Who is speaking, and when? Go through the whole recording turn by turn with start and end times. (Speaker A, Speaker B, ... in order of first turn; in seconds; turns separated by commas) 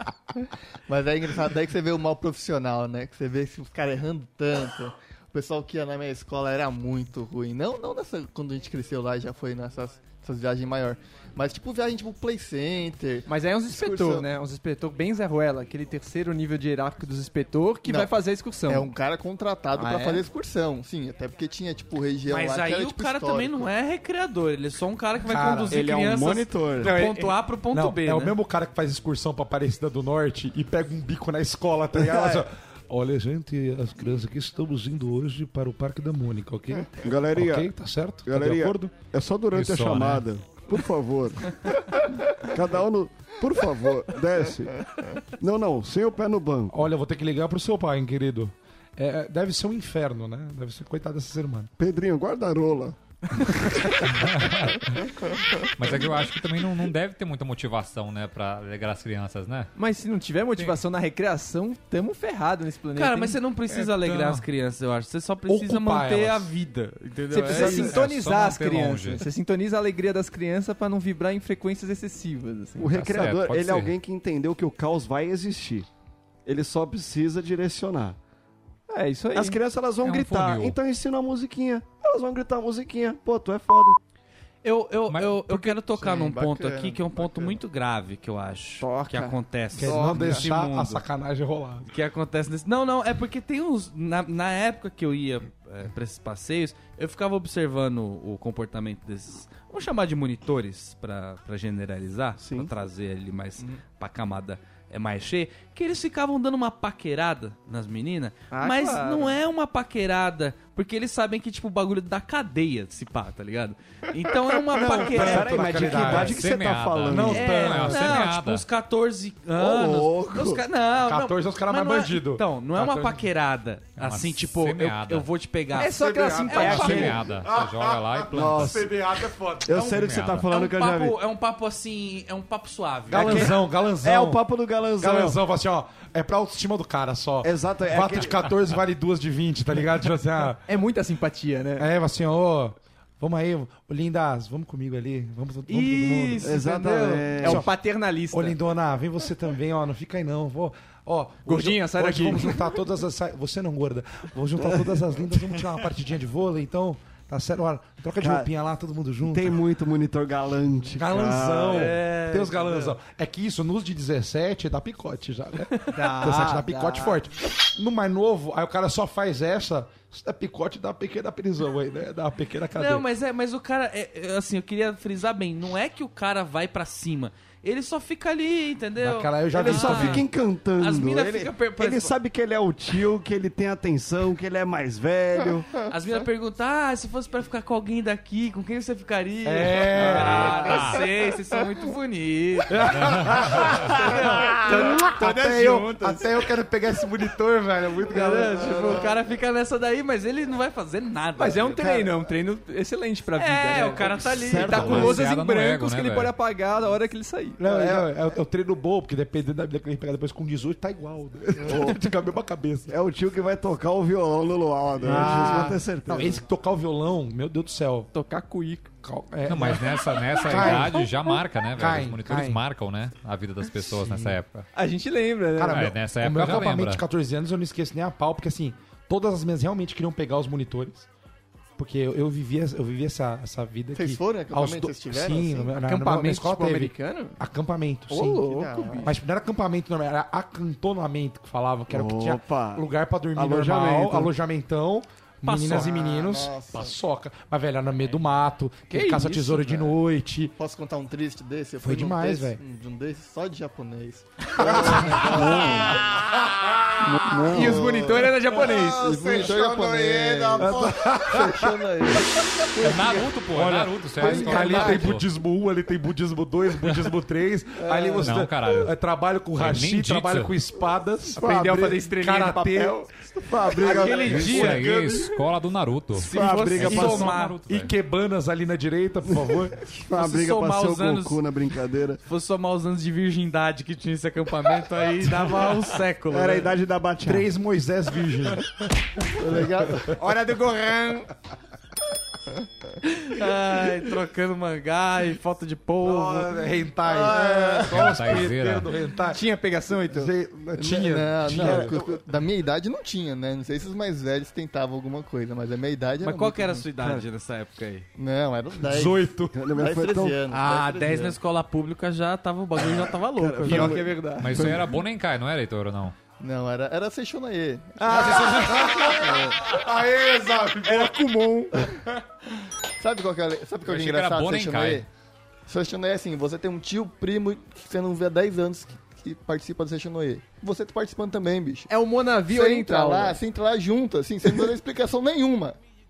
Speaker A: 0.9-14.2, Speaker B: 13.3-18.9, Speaker A: 17.9-23.7, Speaker B: 19.8-20.2, Speaker C: 22.3-28.4, Speaker D: 25.3-25.8, Speaker E: 25.7-26.9, Speaker D: 26.8-38.9, Speaker E: 31.9-32.5, Speaker E: 37.0-37.7, Speaker E: 38.2-41.8, Speaker F: 39.5-40.2, Speaker E: 42.4-46.8, Speaker D: 46.7-51.7, Speaker E: 51.8-53.8, Speaker F: 54.0-55.0, Speaker F: 55.6-59.7, Speaker B: 59.8-63.4, Speaker C: 62.9-68.0, Speaker D: 63.7-64.4, Speaker D: 65.5-66.5, Speaker B: 67.3-73.1, Speaker F: 67.5-69.2, Speaker D: 67.5-67.8, Speaker E: 72.8-75.9, Speaker F: 72.9-73.9, Speaker E: 76.4-78.2, Speaker B: 78.9-79.6, Speaker E: 79.3-84.0, Speaker F: 80.0-80.8, Speaker C: 84.6-91.0, Speaker F: 85.1-85.5, Speaker A: 85.8-87.6, Speaker B: 88.8-90.3, Speaker D: 89.8-91.9, Speaker C: 91.8-116.1, Speaker E: 102.4-102.7, Speaker B: 108.5-109.4, Speaker D: 114.7-116.4, Speaker E: 114.9-117.5, Speaker F: 116.0-118.6, Speaker D: 117.1-118.2, Speaker C: 117.3-127.0, Speaker E: 119.5-120.6, Speaker D: 121.0-123.3, Speaker F: 124.0-125.3, Speaker B: 125.7-127.2, Speaker D: 125.9-129.9, Speaker F: 126.5-128.9, Speaker E: 126.6-127.2, Speaker E: 128.3-128.9, Speaker E: 129.6-131.2, Speaker C: 129.7-133.5, Speaker F: 129.7-130.5, Speaker D: 133.1-134.4, Speaker E: 133.1-135.4, Speaker D: 135.0-140.6, Speaker E: 137.4-138.5, Speaker B: 140.7-141.9, Speaker D: 141.8-146.6, Speaker C: 145.7-146.6, Speaker B: 145.9-148.5, Speaker E: 146.4-147.7, Speaker D: 147.4-147.7, Speaker D: 148.3-159.6, Speaker B: 151.4-152.7, Speaker E: 158.2-158.5, Speaker E: 159.2-162.0, Speaker D: 160.9-173.1, Speaker C: 161.7-162.9, Speaker B: 165.8-167.2, Speaker C: 165.9-166.5, Speaker C: 172.8-180.2, Speaker D: 179.0-180.3, Speaker E: 179.5-185.7, Speaker C: 180.8-182.1, Speaker C: 185.8-193.0, Speaker D: 189.4-190.8, Speaker F: 190.6-191.0, Speaker D: 192.7-199.0, Speaker C: 193.9-194.6, Speaker B: 194.0-196.3, Speaker B: 198.1-199.1, Speaker C: 198.1-201.9, Speaker B: 201.4-208.1, Speaker C: 203.3-205.1, Speaker E: 204.3-205.3, Speaker F: 204.7-206.3, Speaker D: 207.6-212.9, Speaker E: 211.7-212.0, Speaker E: 212.9-216.4, Speaker D: 215.0-218.1, Speaker B: 215.1-215.7, Speaker B: 218.1-218.9, Speaker D: 219.0-221.2, Speaker F: 219.5-224.7, Speaker D: 221.8-222.6, Speaker D: 224.0-224.4, Speaker B: 224.7-225.9, Speaker D: 225.5-231.1, Speaker F: 225.7-227.0, Speaker D: 231.8-238.5, Speaker A: 233.9-235.8, Speaker B: 235.8-237.4, Speaker B: 238.1-239.1, Speaker A: 238.4-239.1, Speaker D: 239.0-250.5, Speaker E: 241.9-244.3, Speaker C: 245.4-245.9, Speaker A: 245.6-246.9, Speaker B: 248.9-249.9, Speaker A: 250.6-256.2, Speaker D: 251.8-252.6, Speaker D: 254.6-257.8, Speaker B: 255.3-255.9, Speaker E: 255.5-255.8, Speaker B: 257.0-259.6, Speaker E: 257.3-257.8, Speaker A: 257.5-263.3, Speaker E: 258.8-260.7, Speaker D: 260.5-262.2, Speaker F: 262.8-265.3, Speaker D: 262.8-273.0, Speaker A: 264.2-265.1, Speaker F: 268.2-268.9, Speaker F: 269.6-270.5, Speaker B: 271.3-273.2, Speaker E: 273.4-274.9, Speaker B: 273.8-274.7, Speaker C: 273.8-275.2, Speaker D: 274.0-275.2, Speaker F: 274.2-277.9, Speaker C: 276.2-277.6, Speaker E: 276.2-277.3, Speaker D: 276.8-279.8, Speaker E: 279.3-282.2, Speaker C: 280.1-281.4, Speaker C: 282.2-286.7, Speaker E: 286.3-287.5, Speaker D: 287.2-288.9, Speaker A: 289.3-290.1, Speaker B: 290.0-291.3, Speaker C: 293.0-296.5, Speaker D: 296.0-299.4, Speaker A: 297.1-297.4, Speaker F: 297.9-298.9, Speaker B: 299.3-300.3, Speaker D: 300.1-302.0, Speaker A: 300.8-306.8, Speaker E: 301.5-302.2, Speaker C: 306.2-308.1, Speaker E: 307.0-307.2, Speaker A: 308.2-311.4, Speaker D: 308.8-309.6, Speaker E: 309.5-310.4, Speaker C: 310.5-313.9, Speaker E: 312.9-314.9, Speaker B: 313.6-314.7, Speaker F: 314.4-316.1, Speaker A: 316.4-319.6, Speaker B: 318.0-318.8, Speaker D: 318.1-321.2, Speaker B: 320.8-321.9, Speaker A: 323.0-325.1, Speaker F: 323.8-325.0, Speaker A: 325.7-331.9, Speaker B: 331.9-333.4, Speaker A: 332.5-335.8